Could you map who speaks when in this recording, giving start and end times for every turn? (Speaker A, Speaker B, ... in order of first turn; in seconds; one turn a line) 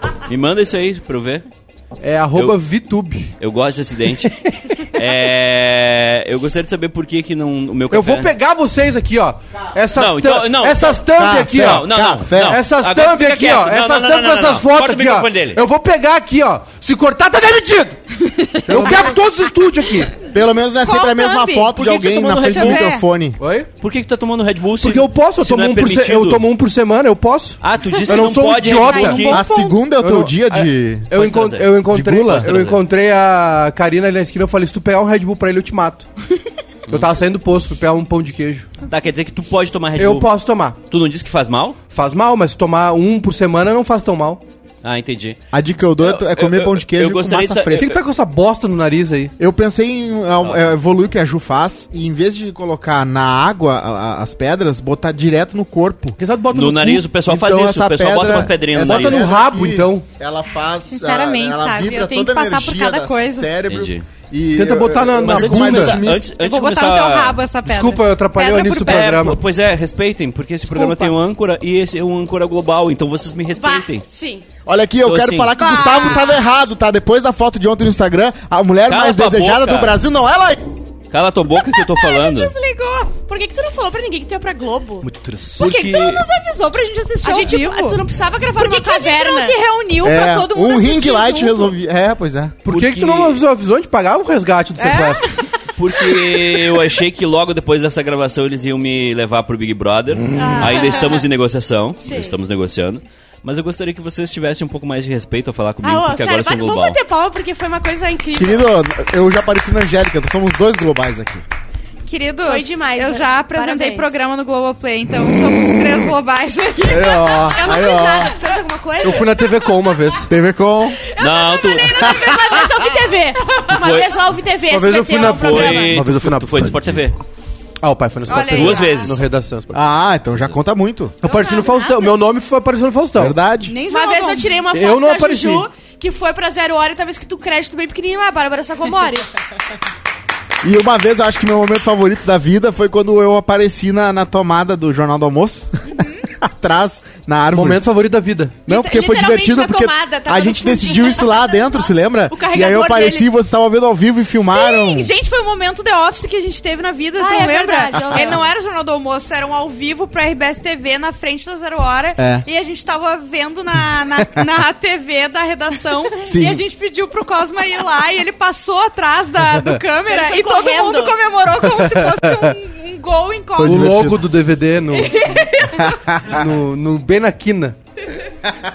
Speaker A: 0.3-1.5
Speaker B: 2.0-3.3
Speaker A: 2.3-2.6
Speaker A: 3.4-4.3
Speaker B: 4.3-4.6
Speaker A: 4.8-8.3
Speaker B: 7.9-20.1
Speaker A: 9.9-15.6
Speaker C: 11.2-12.6
Speaker D: 18.2-18.7
Speaker C: 18.7-19.2
Speaker C: 20.2-23.4
Speaker D: 20.8-23.1
Speaker A: 21.7-23.0
Speaker B: 23.4-23.7
Speaker A: 23.8-26.4
Speaker B: 24.8-36.1
Speaker A: 27.6-29.4
Speaker D: 27.9-29.8
Speaker C: 29.3-31.1
Speaker A: 31.1-31.8
Speaker C: 31.9-32.6
Speaker A: 32.4-32.8
Speaker B: 36.9-38.7
Speaker A: 38.9-40.3
Speaker B: 40.0-40.8
Speaker A: 40.9-41.8
Speaker B: 41.9-44.4
Speaker A: 44.8-45.4
Speaker C: 45.5-47.9
Speaker A: 46.0-48.0
Speaker B: 47.7-49.3
Speaker C: 49.4-56.2
Speaker A: 50.4-50.7
Speaker B: 56.2-57.1
Speaker A: 56.5-59.3
Speaker C: 57.2-66.3
Speaker B: 58.8-60.0
Speaker D: 60.9-63.5
Speaker A: 63.7-64.1
Speaker B: 64.5-66.0
Speaker A: 65.2-67.4
Speaker D: 66.3-69.2
Speaker B: 67.7-69.4
Speaker A: 68.7-74.0
Speaker D: 70.7-71.1
Speaker E: 73.5-74.5
Speaker C: 74.7-80.6
Speaker A: 75.0-75.5
Speaker D: 75.6-76.5
Speaker A: 78.9-80.0
Speaker A: 81.1-82.5
Speaker D: 81.6-83.1
Speaker E: 83.3-85.1
Speaker B: 85.0-85.8
Speaker A: 85.6-86.2
Speaker D: 85.6-88.0
Speaker E: 87.2-89.6
Speaker D: 88.5-91.7
Speaker C: 90.0-92.6
Speaker B: 92.6-95.3
Speaker A: 92.7-93.4
Speaker D: 94.8-95.7
Speaker A: 95.8-107.0
Speaker E: 100.4-101.2
Speaker D: 100.5-101.0
Speaker E: 102.0-102.4
Speaker E: 105.8-108.7
Speaker C: 108.3-111.4
Speaker D: 112.0-117.7
Speaker E: 112.5-114.2
Speaker C: 116.8-118.3
Speaker E: 117.5-119.7
Speaker B: 119.0-120.3
Speaker C: 120.2-121.0
Speaker E: 121.1-126.0
Speaker A: 121.2-122.3
Speaker D: 122.0-122.7
Speaker A: 123.7-124.1
Speaker B: 124.7-127.0
Speaker A: 125.3-127.2
Speaker B: 127.8-129.8
Speaker A: 128.3-129.2
Speaker D: 128.3-129.1
Speaker E: 128.8-129.1
Speaker C: 129.7-131.2
Speaker B: 131.2-133.4
Speaker E: 131.2-132.1
Speaker C: 133.2-133.8
Speaker D: 133.7-134.7
Speaker E: 133.9-139.3
Speaker B: 134.7-135.7
Speaker C: 140.6-147.8
Speaker B: 147.5-148.6
Speaker E: 148.7-153.3
Speaker C: 148.7-155.1
Speaker D: 154.5-174.0
Speaker E: 157.2-158.4
Speaker C: 162.2-162.4
Speaker C: 166.3-166.6
Speaker E: 170.1-171.2
Speaker B: 171.8-172.5
Speaker C: 173.6-174.3
Speaker B: 173.6-175.3
Speaker D: 175.0-175.9
Speaker C: 175.8-176.1
Speaker B: 176.2-177.8